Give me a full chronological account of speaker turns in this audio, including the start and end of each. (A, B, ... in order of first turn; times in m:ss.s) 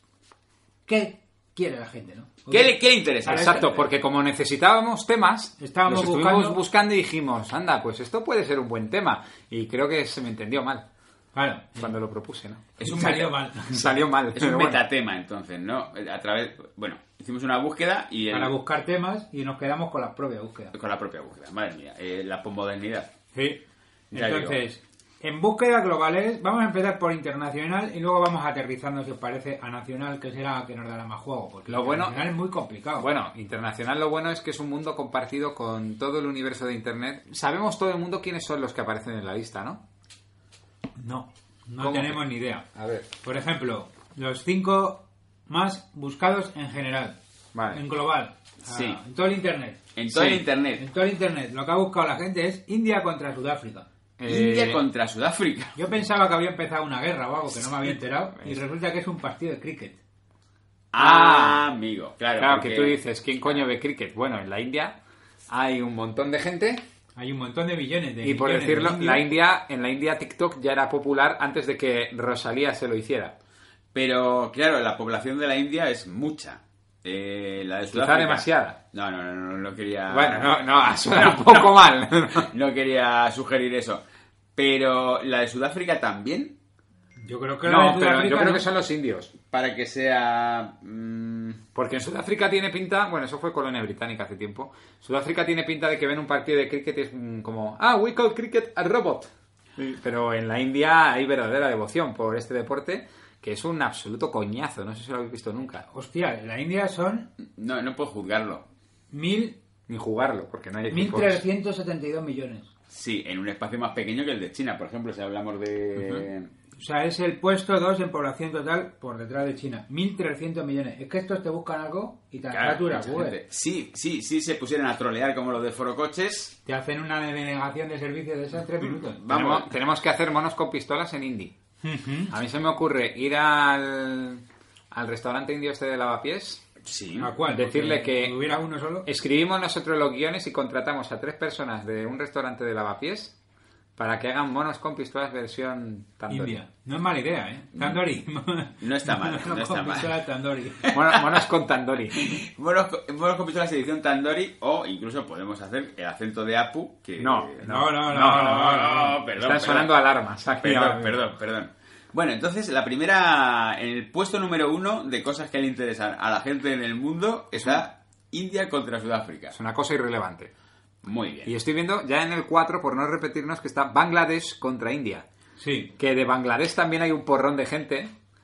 0:00.9-0:03.6 A
0:02.5-0:03.8 B
0:03.2-0:10.9 C
0:05.6-0:06.6 A
0:11.3-0:12.0 A
0:11.8-0:12.6 C
0:12.8-0:13.4 B
0:12.8-0:13.9 A
0:13.7-0:14.9 C
0:14.4-0:18.6 B
0:18.3-0:20.7 A
0:20.7-0:23.1 B
0:23.3-0:33.1 A
0:24.1-0:24.6 B
0:31.7-0:32.3 C
0:33.0-0:39.8 C
0:41.0-0:42.6 A
0:41.8-0:43.1 C
0:43.2-0:47.2 A
0:47.5-0:47.8 C
0:47.7-0:49.8 A
0:48.7-0:49.0 B
0:50.0-0:50.8 B
0:50.1-0:50.4 C
0:50.8-0:53.9 A
0:54.2-0:54.8 C
0:54.2-0:55.8 B
0:55.8-1:00.0 A
1:00.9-1:03.6 B
1:01.0-1:01.7 C
1:02.4-1:05.0 C
1:05.5-1:06.8 C
1:07.2-1:09.3 A
1:08.2-1:13.4 C
1:13.9-1:24.0 B
1:17.9-1:18.8 C
1:20.1-1:22.5 C
1:24.6-1:26.6 B
1:27.2-1:28.6 A
1:27.7-1:29.3 C
1:27.7-1:28.1 B
1:29.5-1:31.6 B
1:31.8-1:45.9 C
1:45.9-1:47.3 A
1:47.6-1:48.7 B
1:49.1-1:49.6 A
1:49.9-1:51.4 C
1:50.9-1:52.7 A
1:52.9-1:56.5 B
1:56.0-1:56.2 C
1:56.8-2:03.4 A
2:02.5-2:06.6 B
2:06.7-2:09.2 A
2:08.9-2:09.7 B
2:09.3-2:11.6 C
2:11.8-2:12.4 A
2:12.3-2:16.6 C
2:16.8-2:17.4 B
2:17.2-2:19.1 A
2:17.4-2:18.5 C
2:19.0-2:23.4 C
2:24.0-2:26.5 C
2:26.3-2:30.9 A
2:28.8-2:30.2 B
2:30.8-2:31.4 B
2:30.9-2:32.4 C
2:32.1-2:39.9 B
2:37.2-2:38.7 C
2:37.6-2:39.2 A
2:39.4-2:41.2 C
2:40.6-2:49.6 B
2:47.6-2:47.8 C
2:49.5-2:50.5 C
2:51.0-2:51.6 B
2:51.4-2:55.2 C
2:55.6-2:55.9 A
2:56.0-2:58.1 C